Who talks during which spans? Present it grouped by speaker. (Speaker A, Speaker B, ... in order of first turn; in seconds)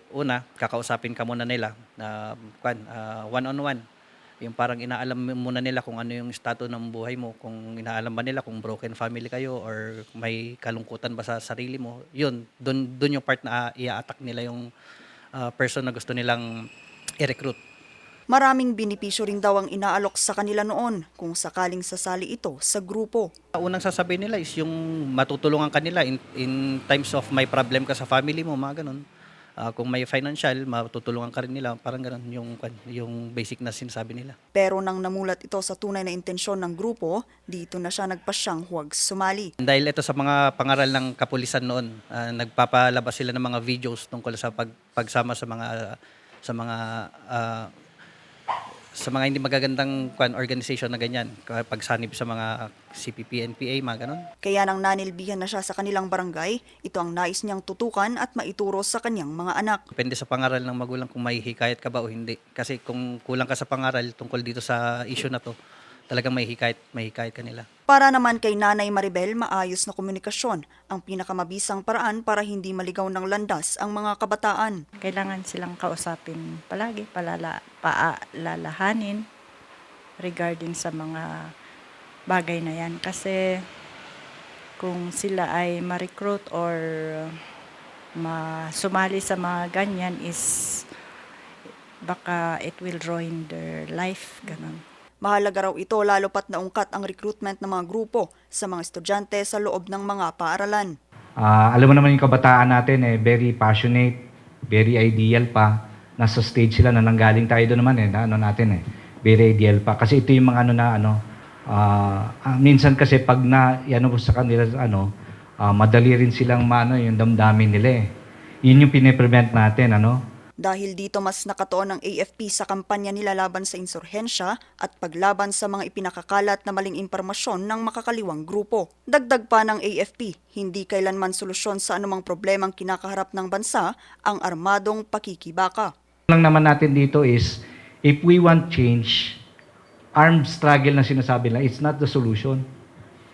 Speaker A: 0.1-3.8, 4.4-14.6, 15.4-16.4, 17.2-17.6, 23.6-29.0, 29.6-34.4, 39.6-45.8, 46.5-47.7, 49.0-54.2, 60.0-65.5, 66.1-67.7
Speaker B: 18.3-23.3, 34.5-39.5, 54.4-59.8, 67.9-74.8, 95.2-100.9, 120.6-135.9
Speaker C: 75.0-79.3, 80.2-81.5, 82.3-83.6, 84.8-87.4, 88.2-90.9, 92.0-94.8
Speaker D: 101.4-104.2, 104.7-111.2, 111.7-115.1, 115.6-118.1, 118.7-120.2, 136.3-139.4, 140.2-142.6